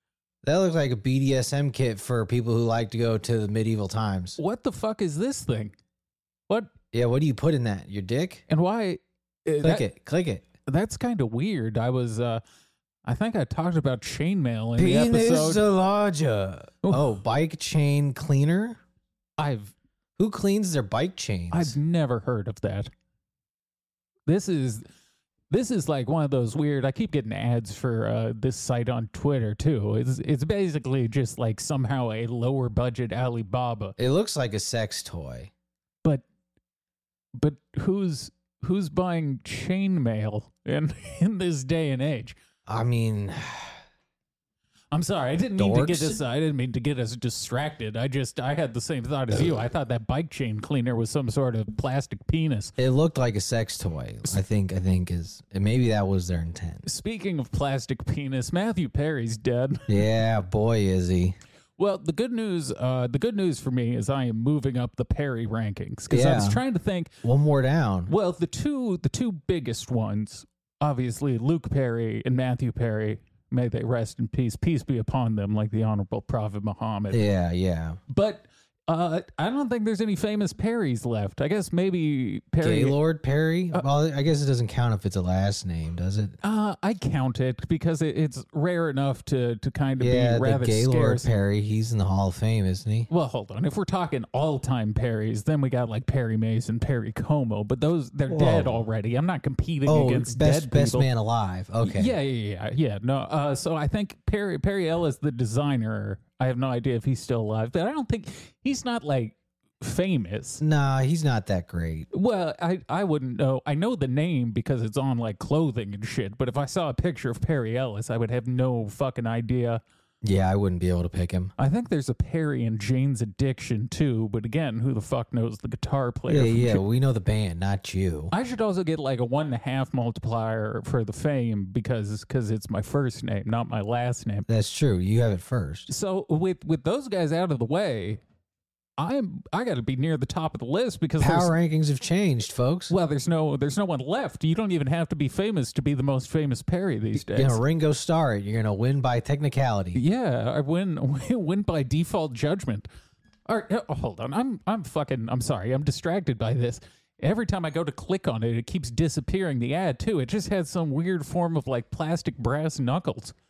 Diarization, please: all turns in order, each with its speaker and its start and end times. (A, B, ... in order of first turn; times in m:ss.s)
0:00.4-0:04.4 A
0:04.4-0:05.7 B
0:06.9-0:08.4 A
0:08.5-0:09.9 B
0:09.6-0:10.4 A
0:10.6-0:12.4 B
0:13.0-0:15.6 B
0:14.8-0:18.8 A
0:19.4-0:19.7 B
0:20.2-0:21.8 A
0:21.5-0:22.9 B
0:24.3-0:24.8 B
0:25.5-0:33.9 B
0:34.0-0:35.5 A
0:37.3-0:42.4 B
0:42.7-0:43.8 A
0:44.9-0:52.7 B
0:45.6-0:46.2 A
0:52.8-0:56.8 A
0:56.8-1:00.0 B
0:59.9-1:01.4 A
1:01.8-1:07.1 B
1:06.1-1:06.6 A
1:07.2-1:08.1 A
1:08.1-1:17.2 B
1:17.1-1:18.0 A
1:18.1-1:23.0 B
1:22.6-1:26.4 A
1:26.4-1:31.3 B
1:30.0-1:33.1 A
1:33.1-1:41.1 B
1:38.3-1:38.8 A
1:39.9-1:42.1 A
1:41.8-1:50.6 B
1:50.6-1:52.1 A
1:52.1-1:59.8 B
2:00.2-2:01.5 A
2:01.6-2:06.8 B
2:06.3-2:08.3 A
2:08.3-2:14.5 B
2:14.5-2:15.9 A
2:15.9-2:18.2 B
2:19.0-2:21.5 B
2:21.2-2:22.9 A
2:22.9-2:27.6 B
2:27.2-2:30.0 A
2:29.9-2:32.9 B
2:33.4-2:43.3 B